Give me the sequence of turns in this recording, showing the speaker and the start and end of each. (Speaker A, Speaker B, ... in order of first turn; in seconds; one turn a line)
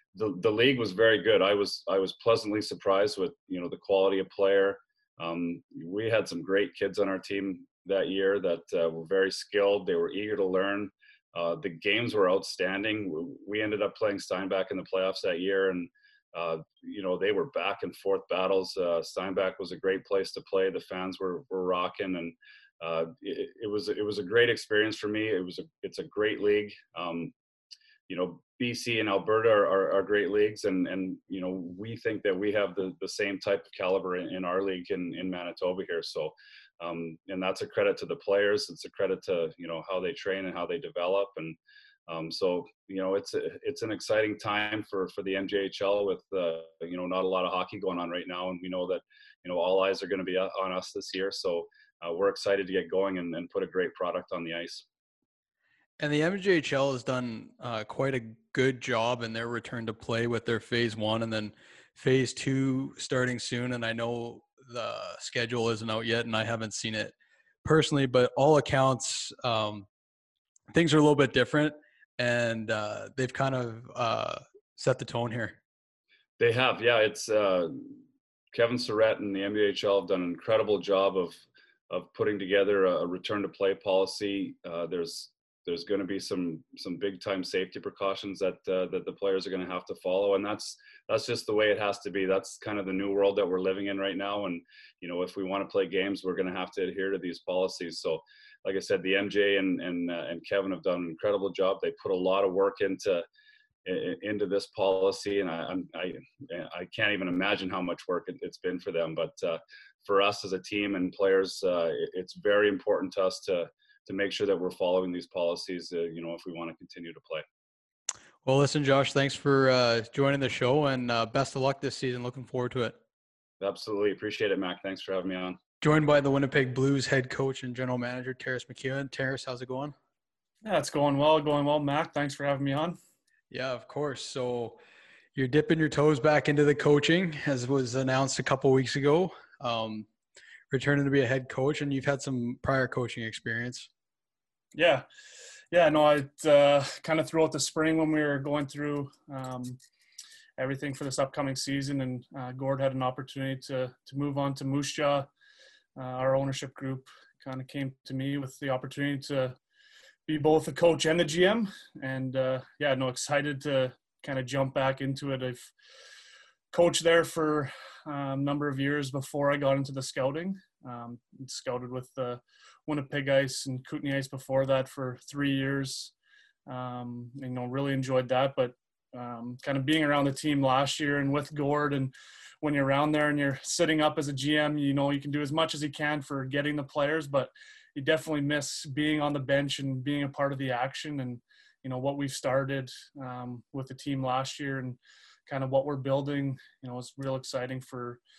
Speaker A: 0.1-27.3
Speaker A: 28.1-54.9
Speaker B: 56.0-67.1
Speaker B: 67.6-69.9
Speaker B: 70.7-75.6
Speaker A: 76.4-78.0
Speaker A: 78.5-103.2
Speaker A: 103.8-117.5
Speaker B: 118.5-123.0
Speaker A: 123.6-125.6
Speaker B: 125.8-129.9
Speaker C: 130.6-133.0
Speaker B: 133.5-134.8
Speaker B: 135.3-140.1
Speaker B: 140.7-143.9
Speaker C: 144.8-145.1
Speaker C: 145.7-149.8
Speaker C: 150.6-155.3
Speaker C: 156.0-159.6
Speaker C: 160.3-165.7
Speaker C: 166.7-176.1
Speaker C: 176.7-198.2